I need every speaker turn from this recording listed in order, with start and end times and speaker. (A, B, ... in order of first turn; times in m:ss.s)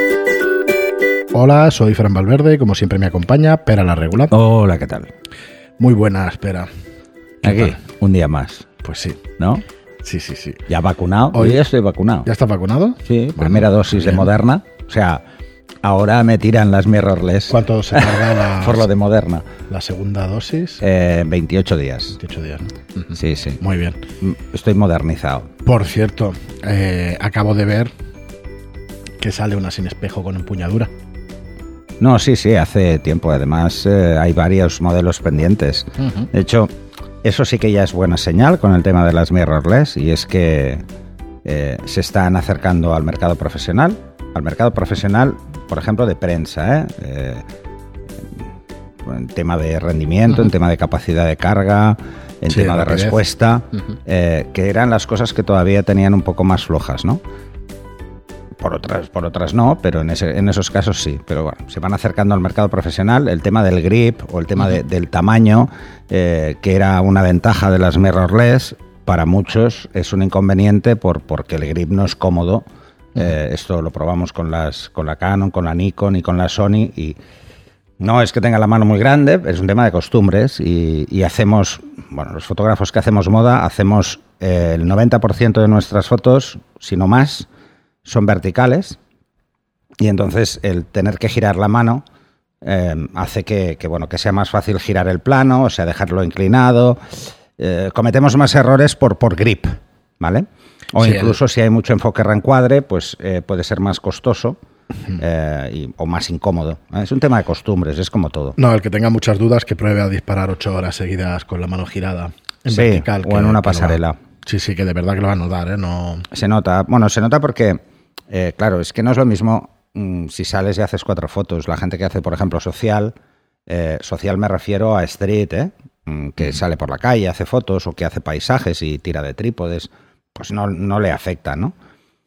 0:01.3-0:04.3 A
0:04.3-0:05.1 B
0:05.8-0:06.7 A
0:07.4-0:08.6 B
0:07.4-0:07.7 A
0:08.8-0:09.2 A
0:09.4-0:09.6 B
0:10.0-0:10.6 A
0:10.7-0:12.3 B
0:11.3-0:11.6 A
0:12.2-0:14.2 A
0:13.1-0:15.2 B
0:15.8-0:19.5 B
0:17.5-0:18.9 A
0:19.7-0:20.8 A
0:20.8-0:22.2 B
0:22.2-0:24.0 A
0:23.1-0:23.6 B
0:24.2-0:25.5 B
0:25.6-0:27.9 A
0:29.2-0:30.9 A
0:32.0-0:36.7 B
0:37.2-0:40.8 B
0:41.4-0:47.4 B
0:49.0-0:57.2 B
0:52.5-0:53.2 A
0:58.6-1:17.2 B
1:18.0-1:27.5 B
1:28.0-1:29.0 B
1:30.0-1:32.0 B
1:32.6-1:37.0 B
1:37.6-1:44.6 B
1:41.0-1:41.3 A
1:45.2-1:48.6 B
1:48.6-1:56.3 A
1:52.7-1:54.2 B
1:56.3-2:03.1 B
2:03.7-2:11.7 B